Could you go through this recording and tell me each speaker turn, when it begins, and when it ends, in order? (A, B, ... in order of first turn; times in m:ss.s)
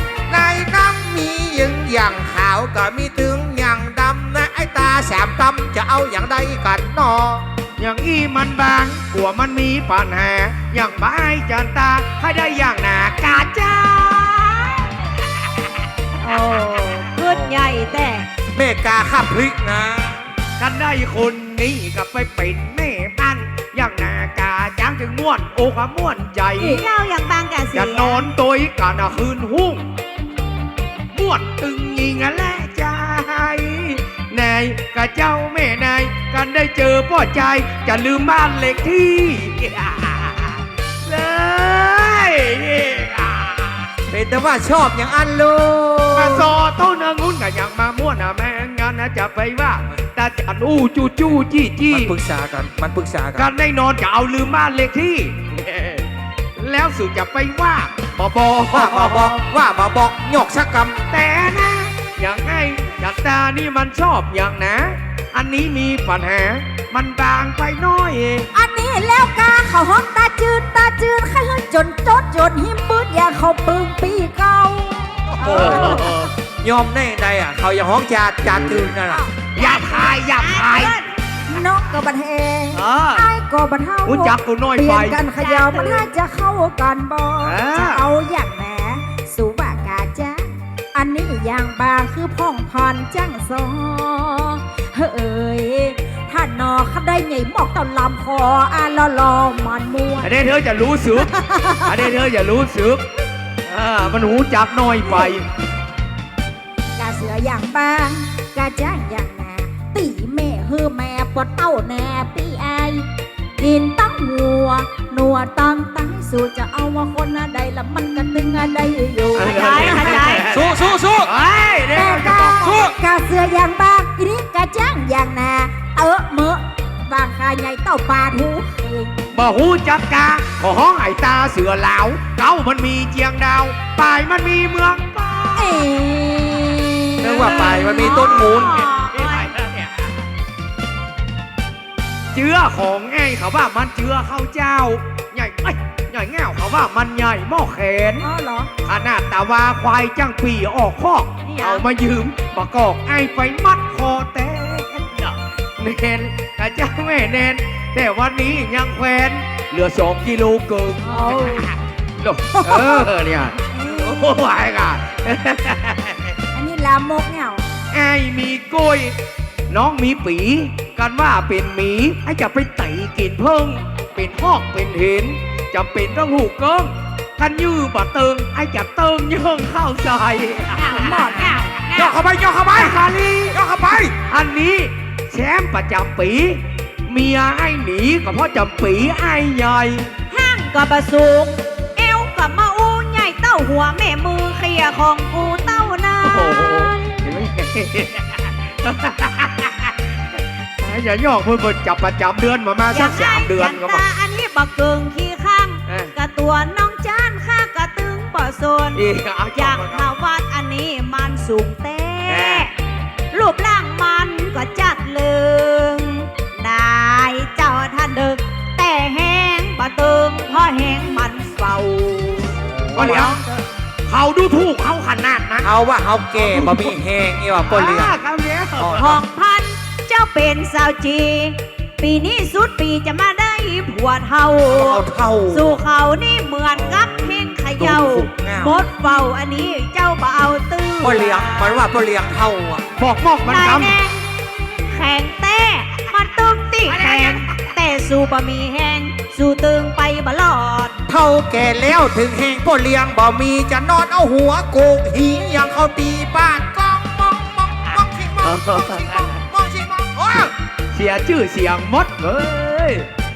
0:00.3-0:07.5 A
0:07.8-0:14.9 B
0:16.2-0:18.3 C
0:17.3-0:17.6 A
0:18.5-0:20.3 A
0:20.6-0:26.9 B
0:26.6-0:28.2 C
0:27.7-0:29.9 B
0:31.1-0:43.9 B
0:44.1-0:46.6 A
0:46.1-0:52.1 B
0:51.9-0:53.5 A
0:53.4-0:59.4 B
0:58.7-1:01.0 A
1:01.1-1:08.5 B
1:08.5-1:16.2 D
1:15.3-1:16.0 A
1:15.4-1:16.1 C
1:15.4-1:16.3 B
1:16.6-1:19.2 A
1:18.5-1:18.9 B
1:19.6-1:21.0 B
1:19.6-1:21.1 C
1:21.5-1:40.5 D
1:22.7-1:23.3 B
1:24.1-1:25.2 B
1:25.4-1:26.1 C
1:27.4-1:28.0 B
1:40.2-1:43.1 B
1:41.2-1:42.1 D
1:43.6-1:45.5 B
1:45.0-1:45.4 D
1:47.0-1:53.1 D
1:53.6-2:00.3 D
1:59.4-2:02.9 B
1:59.4-2:00.5 C
2:00.5-2:01.3 A
2:01.9-2:09.3 D
2:02.6-2:02.9 A
2:09.3-2:15.9 B
2:15.6-2:17.8 D
2:17.2-2:18.8 A
2:17.4-2:19.5 C
2:17.5-2:20.2 B
2:22.3-2:28.3 B
2:28.2-2:28.7 D
2:28.8-2:46.4 B
2:31.4-2:31.8 C
2:41.1-2:41.7 D
2:42.5-2:43.1 D
2:46.5-2:47.6 D
2:47.9-2:49.2 B
2:49.7-3:01.1 B
3:00.8-3:02.2 C
3:01.0-3:01.6 D
3:02.0-3:04.2 A
3:02.7-3:03.6 B
3:04.3-3:10.1 B
3:10.3-3:17.0 C
3:16.2-3:24.0 B
3:22.9-3:29.0 C
3:25.9-3:26.1 B
3:29.0-3:30.0 B
3:29.6-3:32.7 C
3:32.3-3:32.7 B
3:33.3-3:43.4 C
3:42.6-3:43.4 A
3:42.9-3:45.7 B
3:45.6-3:48.2 A
3:46.4-3:47.0 B
3:47.7-3:49.0 B
3:48.8-3:49.2 A
3:49.0-4:01.8 C
3:54.7-3:55.8 A
3:56.8-3:58.8 A
4:01.0-4:02.9 A
4:03.0-4:04.0 B
4:03.5-4:11.0 C
4:06.9-4:07.7 B
4:11.1-4:20.5 A
4:18.4-4:19.4 B
4:20.9-4:23.1 B